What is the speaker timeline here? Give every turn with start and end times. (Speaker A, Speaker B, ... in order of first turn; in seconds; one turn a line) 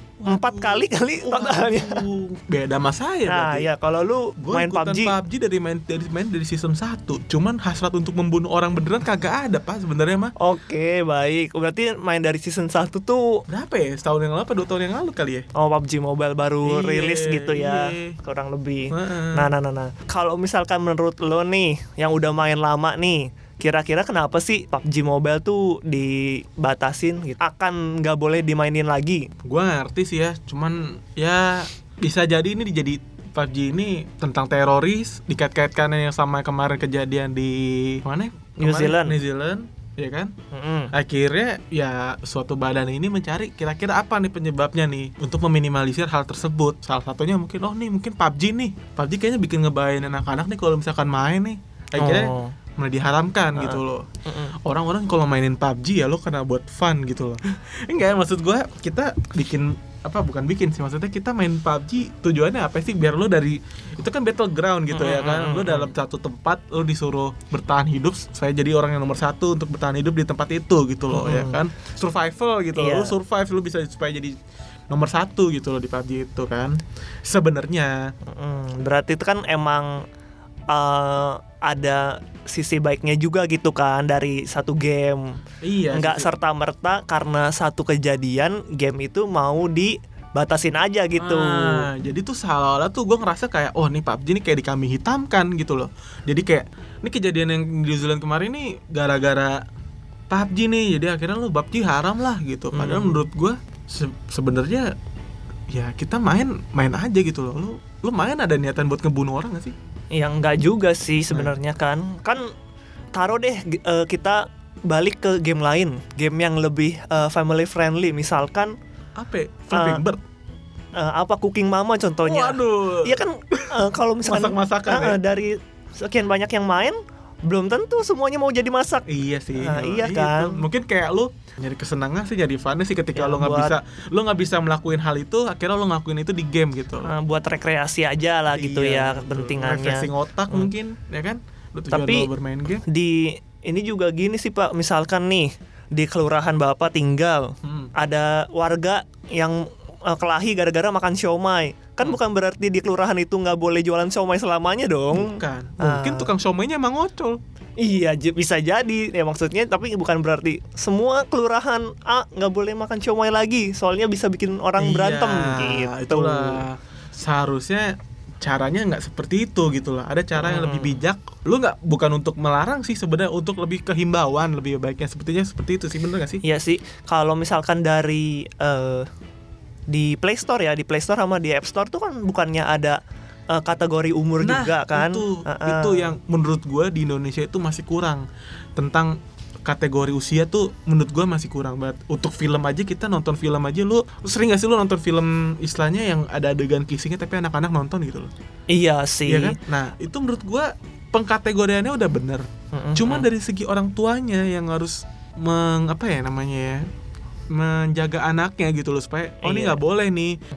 Speaker A: 0.2-3.7
Speaker B: 0.3-2.0
Speaker B: 3.3-5.2
Speaker A: 4.4-10.3
Speaker B: 10.4-13.4
Speaker A: 13.5-15.5
Speaker B: 15.6-29.3
Speaker A: 16.6-18.2
Speaker A: 18.9-19.5
Speaker A: 29.4-40.3
Speaker B: 38.6-39.2
Speaker B: 40.5-40.9
Speaker A: 40.9-54.1
Speaker B: 52.0-52.5
Speaker B: 53.5-54.5
Speaker A: 54.6-74.4
Speaker B: 64.9-65.9
Speaker B: 71.1-71.6
Speaker B: 72.8-73.2
Speaker A: 74.9-78.1
Speaker B: 78.3-80.0
Speaker B: 80.7-85.3
Speaker A: 85.6-86.3
Speaker B: 85.9-91.9
Speaker A: 91.2-99.6
Speaker A: 100.3-104.9
Speaker B: 102.7-103.2
Speaker A: 105.7-109.7
Speaker B: 110.1-112.5
Speaker A: 111.3-111.6
Speaker B: 113.2-118.7
Speaker A: 119.2-120.2
Speaker B: 119.7-120.0
Speaker B: 121.0-130.6
Speaker A: 122.2-125.2
Speaker A: 129.1-137.1
Speaker B: 133.2-133.7
Speaker B: 137.1-140.7
Speaker A: 138.5-142.8
Speaker B: 141.9-142.3
Speaker B: 142.9-156.3
Speaker A: 147.6-147.9
Speaker A: 155.1-157.4
Speaker B: 157.8-166.6
Speaker A: 164.8-176.4
Speaker B: 170.4-171.0
Speaker B: 176.4-179.1
Speaker B: 179.9-183.0
Speaker B: 183.5-186.2
Speaker A: 184.4-188.2
Speaker A: 188.8-198.3
Speaker B: 198.7-199.6
Speaker A: 199.3-206.9
Speaker B: 202.7-203.3
Speaker A: 207.5-210.4
Speaker B: 209.4-209.8